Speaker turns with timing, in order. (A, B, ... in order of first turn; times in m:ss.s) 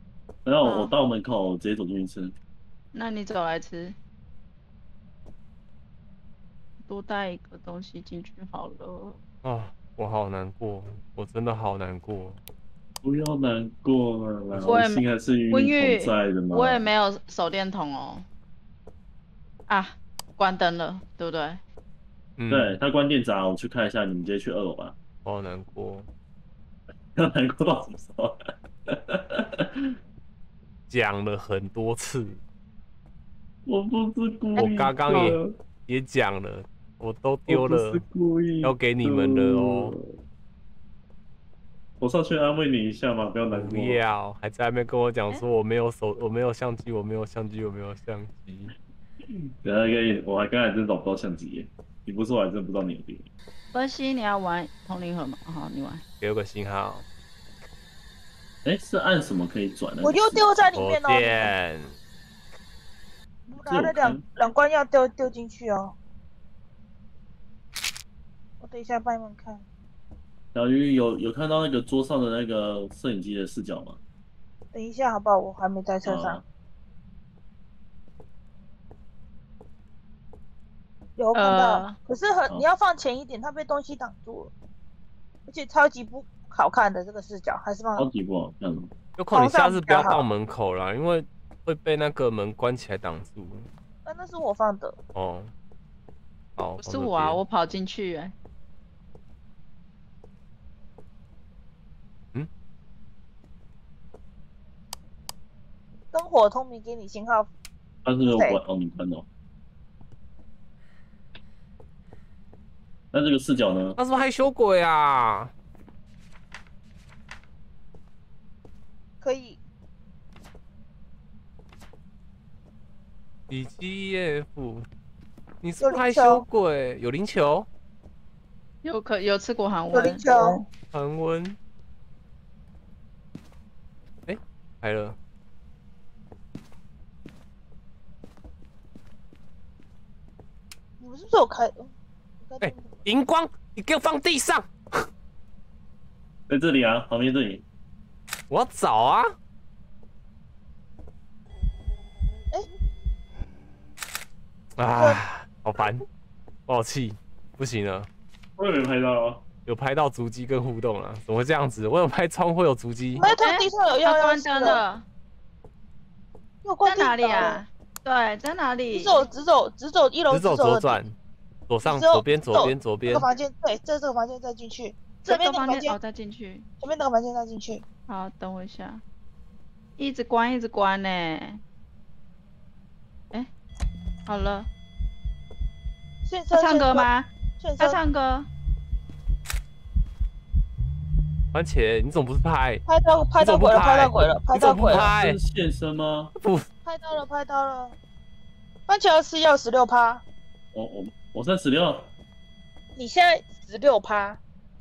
0:00.4-0:02.3 A
0:00.6-0:00.9 B
0:02.9-0:04.0 B
0:06.8-0:09.2 B
0:09.4-0:12.4 C
0:13.0-0:16.9 A
0:14.6-0:18.2 B
0:19.7-0:21.6 B
0:22.4-0:22.8 C
0:22.5-0:25.0 A
0:25.2-0:26.1 C
0:27.2-0:29.9 A
0:30.9-0:32.4 C
0:33.6-0:35.5 A
0:34.6-0:38.0 C
0:37.5-0:40.0 A
0:38.6-0:40.0 C
0:42.0-0:44.0 A
0:43.5-0:48.7 C
0:49.6-0:53.3 A
0:53.7-0:56.0 B
0:56.2-0:57.0 C
0:58.6-1:00.4 A
1:00.0-1:01.5 D
1:00.7-1:01.9 C
1:03.5-1:05.9 D
1:03.6-1:04.2 A
1:08.6-1:09.6 D
1:10.5-1:14.0 A
1:14.7-1:16.4 D
1:16.0-1:16.4 A
1:21.2-1:24.5 D
1:21.3-1:22.0 B
1:25.5-1:28.1 D
1:28.0-1:28.9 A
1:29.2-1:33.7 C
1:29.3-1:30.3 D
1:34.0-1:35.0 D
1:35.1-1:35.5 C
1:36.6-1:37.4 C
1:36.8-1:38.3 B
1:46.1-1:47.5 D
1:48.0-1:49.2 A
1:48.3-1:48.6 D
1:53.1-1:54.0 A
1:54.0-1:55.5 C
1:59.2-1:59.6 D
2:03.5-2:04.8 C
2:05.6-2:07.7 C
2:05.8-2:06.4 D
2:08.8-2:10.2 B
2:09.9-2:10.6 D
2:10.9-2:11.6 C
2:14.3-2:15.2 C
2:21.0-2:23.0 D
2:22.6-2:25.1 C
2:26.5-2:27.6 A
2:28.5-2:29.3 C
2:34.8-2:36.0 C
2:34.9-2:35.2 D
2:36.7-2:38.1 C
2:38.6-2:39.4 A
2:39.6-2:43.3 C
2:43.2-2:44.8 D
2:43.3-2:45.0 B
2:46.6-2:47.6 D
2:46.8-2:49.2 B
2:48.9-2:51.0 D
2:50.3-2:51.1 C
2:51.7-2:53.3 C
2:51.8-2:56.0 D
2:55.2-2:56.7 B
2:56.8-2:57.8 D
2:58.1-2:59.0 B
3:00.0-3:01.6 B
3:04.2-3:04.7 B
3:06.2-3:07.1 D
3:06.5-3:08.5 B
3:07.6-3:08.0 D
3:11.5-3:12.8 C
3:12.8-3:15.1 D
3:13.4-3:15.4 C
3:14.5-3:16.3 A
3:16.4-3:16.6 C
3:16.8-3:18.0 D
3:18.9-3:20.2 D
3:20.7-3:22.1 A
3:23.0-3:24.4 D